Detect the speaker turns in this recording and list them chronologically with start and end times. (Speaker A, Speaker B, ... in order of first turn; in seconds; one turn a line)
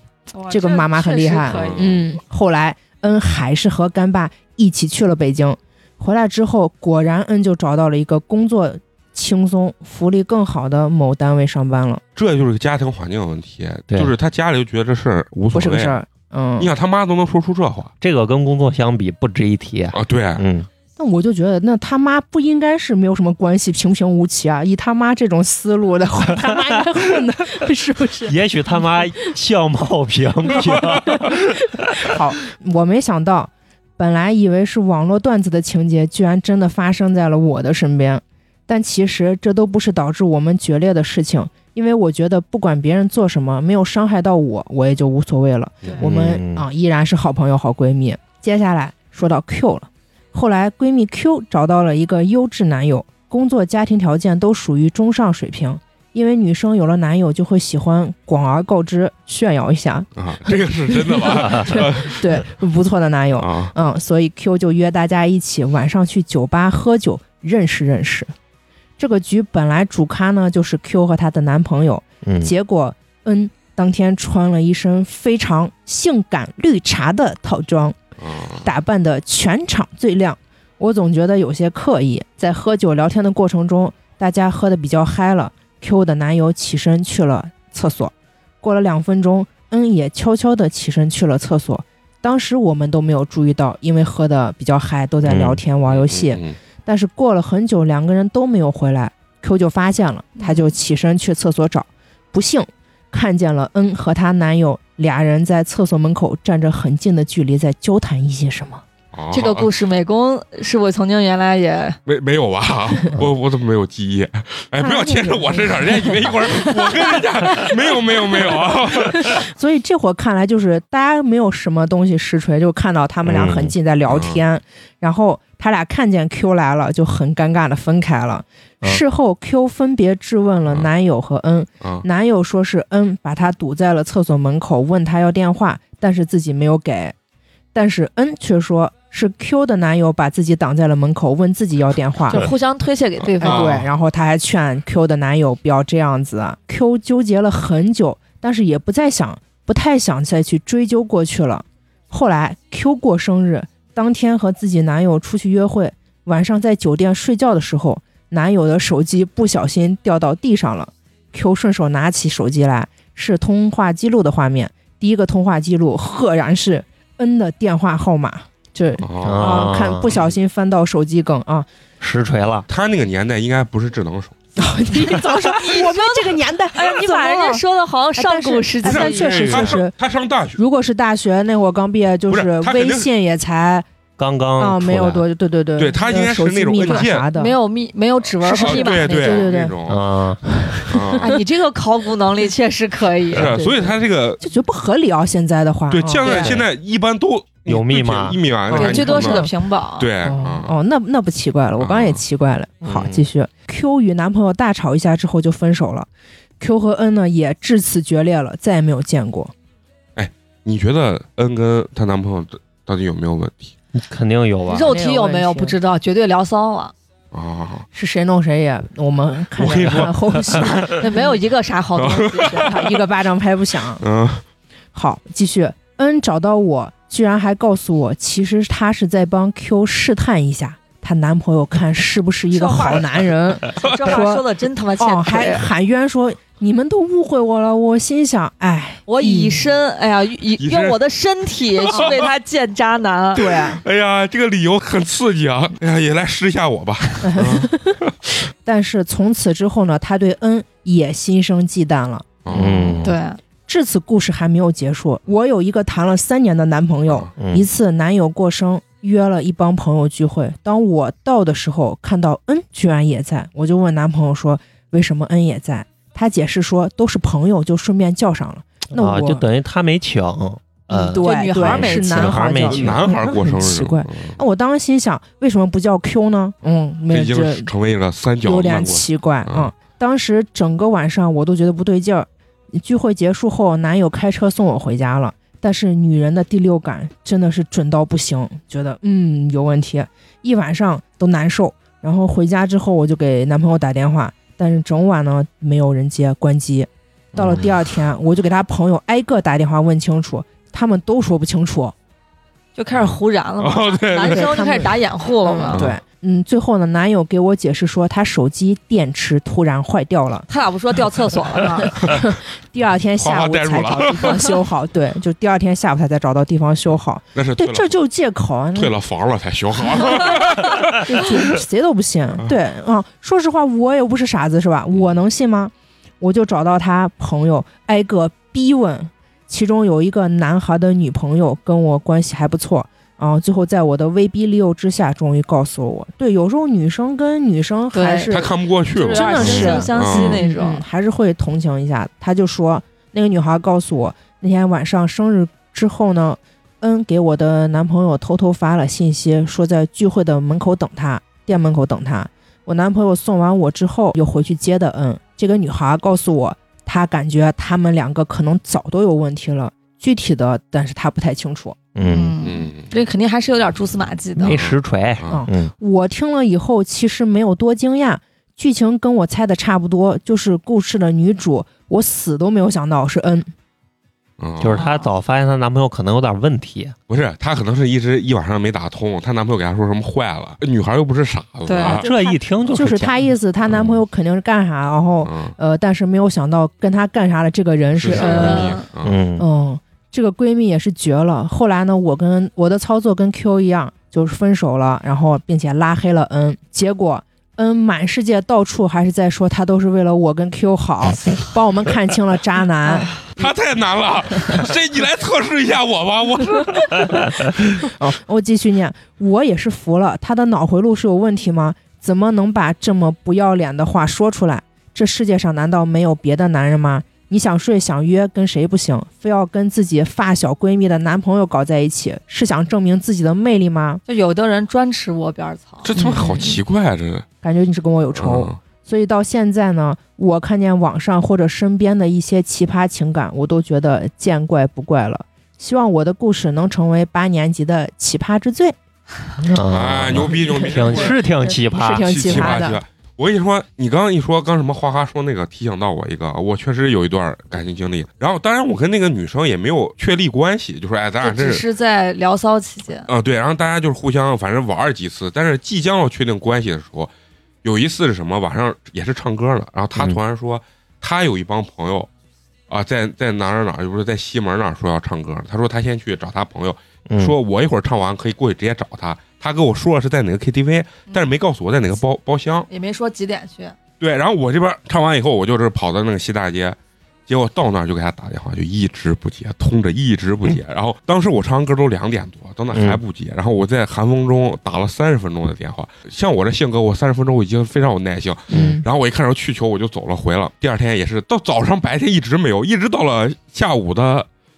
Speaker A: 0.3-1.8
Speaker B: 0.5-12.0
Speaker C: 1.5-2.0
Speaker C: 12.2-16.0
Speaker B: 15.5-16.7
Speaker C: 16.6-17.9
Speaker D: 18.0-20.7
Speaker C: 19.9-20.4
Speaker B: 21.0-29.1
Speaker D: 26.4-26.8
Speaker D: 28.2-32.1
Speaker B: 30.5-31.4
Speaker B: 32.0-68.3
Speaker D: 46.0-46.6
Speaker C: 60.1-62.5
Speaker C: 63.4-63.7
Speaker B: 69.0-78.0
Speaker D: 72.2-72.5
Speaker C: 78.2-78.7
Speaker B: 78.6-108.8
Speaker D: 95.2-95.6
Speaker C: 95.9-96.6
Speaker A: 100.4-100.7
Speaker C: 109.1-109.7
Speaker A: 109.3-112.0
Speaker C: 112.0-119.4
Speaker B: 114.8-116.9
Speaker B: 119.0-137.1
Speaker D: 123.2-123.7
Speaker C: 124.1-124.4
Speaker C: 131.8-132.1
Speaker B: 137.7-142.5
Speaker A: 142.3-143.8
Speaker C: 143.2-143.9
Speaker B: 143.4-171.7
Speaker C: 169.0-170.3
Speaker D: 169.2-170.2
Speaker D: 172.0-172.7
Speaker C: 172.7-174.4
Speaker B: 174.6-177.6
Speaker A: 175.4-179.7
Speaker B: 178.2-179.9
Speaker C: 178.8-180.6
Speaker B: 180.6-183.8
Speaker C: 182.3-183.1
Speaker D: 184.2-185.2
Speaker B: 184.6-187.5
Speaker C: 185.8-187.3
Speaker A: 186.8-189.5
Speaker B: 188.4-189.7
Speaker C: 188.5-190.0
Speaker D: 189.8-190.4
Speaker B: 190.5-191.4
Speaker C: 190.9-191.3
Speaker A: 191.2-193.5
Speaker C: 193.3-194.4
Speaker B: 193.4-196.5
Speaker C: 195.9-200.7
Speaker A: 196.2-196.6
Speaker D: 197.7-198.4
Speaker B: 198.7-199.5
Speaker A: 198.7-200.1
Speaker B: 200.2-206.1
Speaker C: 201.8-202.2
Speaker D: 202.8-203.2
Speaker B: 206.6-209.5
Speaker C: 210.2-213.7
Speaker D: 213.9-214.9
Speaker A: 214.7-216.9
Speaker B: 214.7-215.7
Speaker C: 217.3-217.8
Speaker B: 217.9-221.4
Speaker C: 219.6-220.8
Speaker A: 220.8-222.8
Speaker C: 222.0-222.7
Speaker B: 222.6-224.0
Speaker C: 224.0-224.4
Speaker B: 224.9-234.4
Speaker A: 232.5-235.7
Speaker C: 233.9-234.1
Speaker B: 235.0-239.7
Speaker A: 239.1-243.5
Speaker C: 240.6-240.9
Speaker C: 241.8-242.3
Speaker B: 243.3-243.8
Speaker C: 243.3-248.2
Speaker B: 247.2-248.0
Speaker B: 248.6-252.2
Speaker C: 252.4-253.1
Speaker D: 252.5-253.1
Speaker A: 253.0-253.4
Speaker B: 253.7-269.4
Speaker D: 257.4-257.7
Speaker D: 268.9-273.1
Speaker B: 270.9-277.7
Speaker A: 271.2-272.6
Speaker C: 272.6-274.4
Speaker C: 277.1-279.7
Speaker B: 278.4-301.9
Speaker D: 297.3-297.7
Speaker A: 302.8-305.8
Speaker C: 303.6-304.5
Speaker B: 304.2-310.5
Speaker A: 310.5-311.9
Speaker B: 311.8-318.9
Speaker C: 312.0-312.3
Speaker C: 313.2-314.6
Speaker C: 317.3-318.0
Speaker C: 318.7-321.5
Speaker B: 321.0-338.5
Speaker A: 337.9-340.8
Speaker C: 338.3-340.4
Speaker B: 339.1-361.8
Speaker D: 361.9-362.3
Speaker A: 362.0-364.6
Speaker C: 362.4-362.9
Speaker D: 364.4-365.7
Speaker C: 364.5-365.4
Speaker B: 365.3-373.5
Speaker C: 374.4-374.8
Speaker D: 374.6-376.9
Speaker A: 374.8-375.1
Speaker C: 377.1-382.1
Speaker A: 381.6-382.2
Speaker D: 381.8-383.2
Speaker B: 382.7-388.8
Speaker C: 385.2-385.5
Speaker C: 387.9-389.2
Speaker A: 388.1-388.8
Speaker D: 389.0-389.4
Speaker B: 389.4-403.2
Speaker C: 403.2-407.5
Speaker B: 407.9-424.0
Speaker A: 424.1-425.9
Speaker C: 425.8-427.2
Speaker B: 425.9-426.6
Speaker B: 427.4-438.7
Speaker C: 428.1-428.6
Speaker D: 439.4-442.6
Speaker C: 439.6-441.2
Speaker B: 440.1-442.8
Speaker C: 442.1-451.6
Speaker A: 451.2-453.1
Speaker C: 453.1-457.1
Speaker C: 457.6-462.1
Speaker C: 462.7-472.7
Speaker D: 467.1-467.3
Speaker A: 471.1-471.3
Speaker A: 472.7-473.8
Speaker C: 474.0-494.3
Speaker D: 482.7-483.0
Speaker D: 488.5-488.8
Speaker B: 488.5-488.8